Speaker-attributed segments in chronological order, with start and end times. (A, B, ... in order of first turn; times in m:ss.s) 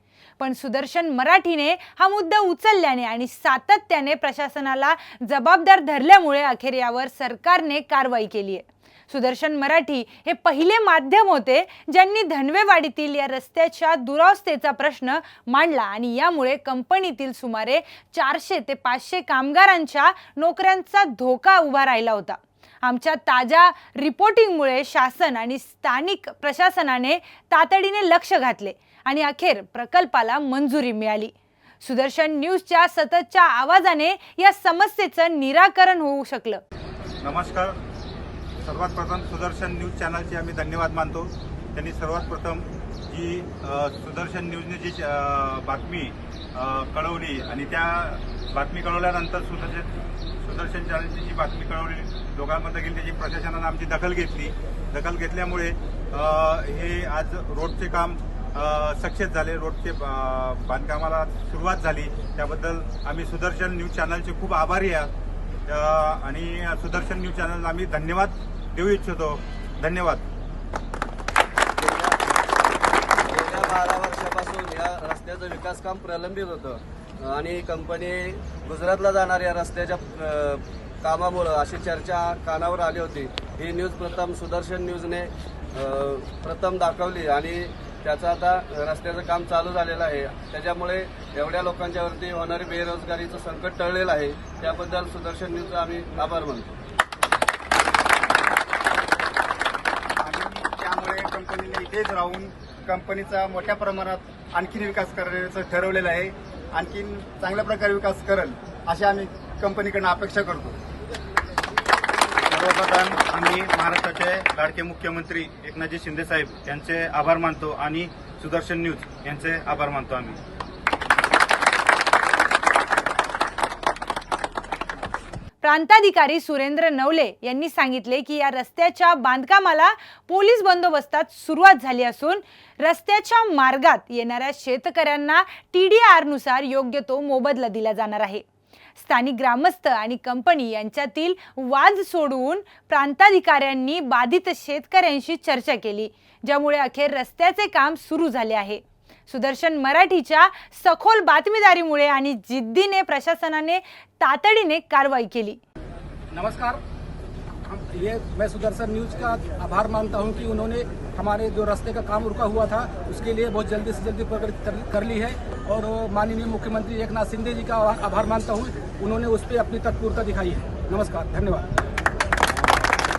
0:00.4-0:36.6 A
0:37.2-0:37.8 B
0:38.6-0:49.9 B
0:50.4-1:05.1 B
1:05.7-1:10.2 B
1:11.8-1:12.2 C
1:13.3-1:36.7 C
1:40.2-1:50.8 D
1:52.5-2:00.4 B
2:05.6-2:18.4 A
2:19.0-2:35.6 A
2:36.3-2:36.8 E
2:37.6-2:51.6 E